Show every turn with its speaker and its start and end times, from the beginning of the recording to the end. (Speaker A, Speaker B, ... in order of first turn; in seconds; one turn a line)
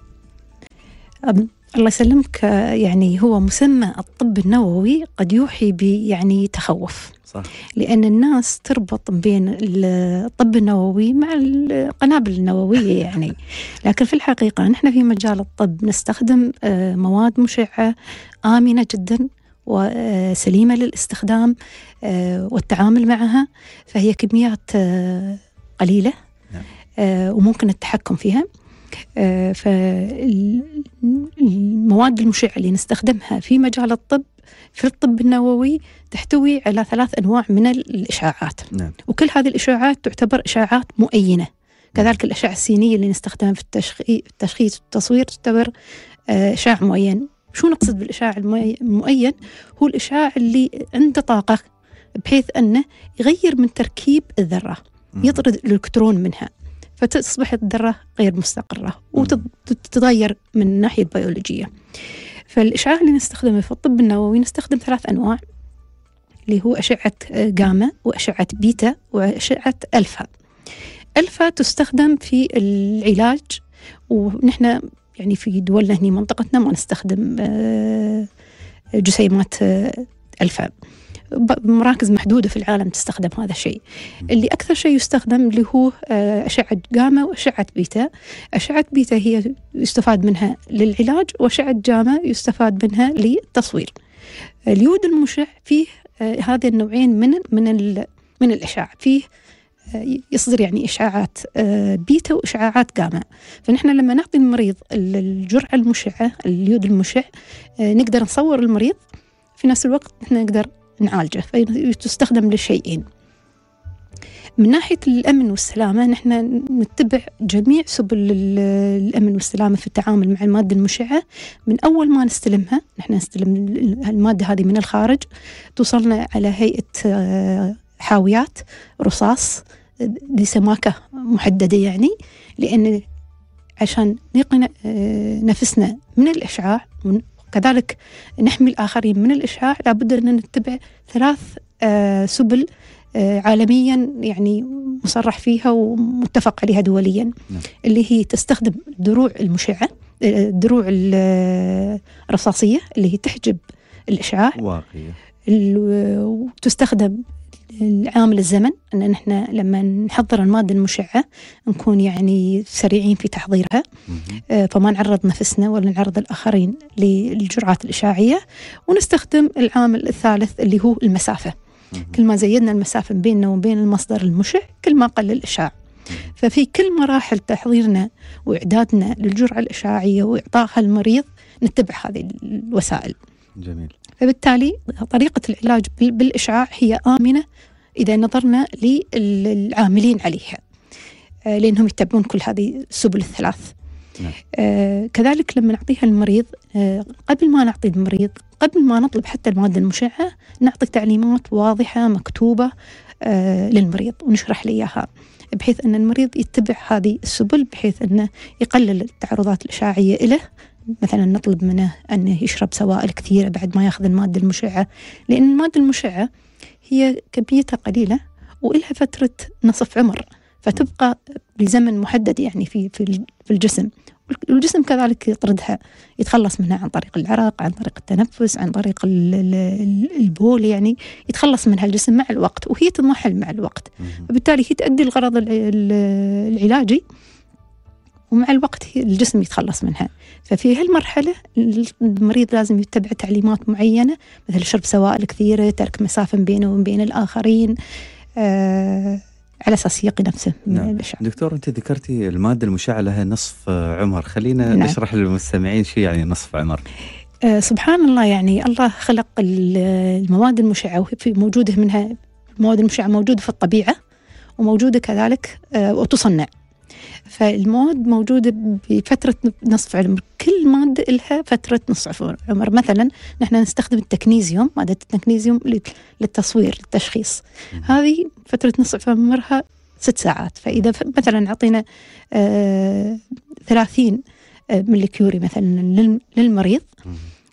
Speaker A: 1.3-7.1
Speaker A: 7.8-17.9
Speaker A: 18.5-26.1
Speaker A: 27.0-28.5
Speaker A: 29.2-34.2
Speaker A: 34.8-45.7
Speaker A: 46.3-51.6
Speaker A: 52.2-61.7
Speaker B: 55.2-55.4
Speaker A: 62.5-65.4
Speaker A: 66.5-70.3
Speaker A: 71.2-73.6
Speaker A: 74.1-78.3
Speaker A: 79.0-80.7
Speaker A: 81.3-93.9
Speaker A: 94.7-99.2
Speaker A: 99.9-107.3
Speaker A: 107.8-109.0
Speaker A: 109.6-113.0
Speaker A: 114.6-125.2
Speaker A: 125.8-133.0
Speaker A: 133.8-147.3
Speaker A: 147.8-154.6
Speaker B: 154.6-155.2
Speaker A: 155.5-157.2
Speaker A: 157.7-163.8
Speaker B: 164.1-164.4
Speaker A: 164.5-171.6
Speaker A: 172.1-175.7
Speaker A: 176.4-183.2
Speaker B: 183.6-183.9
Speaker A: 184.2-187.4
Speaker A: 188.0-190.6
Speaker A: 191.5-193.7
Speaker A: 194.5-202.7
Speaker A: 203.2-216.3
Speaker A: 216.9-237.0
Speaker A: 238.3-247.8
Speaker A: 248.4-251.2
Speaker B: 250.7-256.8
Speaker A: 254.7-255.0
Speaker A: 257.4-263.9
Speaker A: 264.6-266.5
Speaker A: 267.3-286.9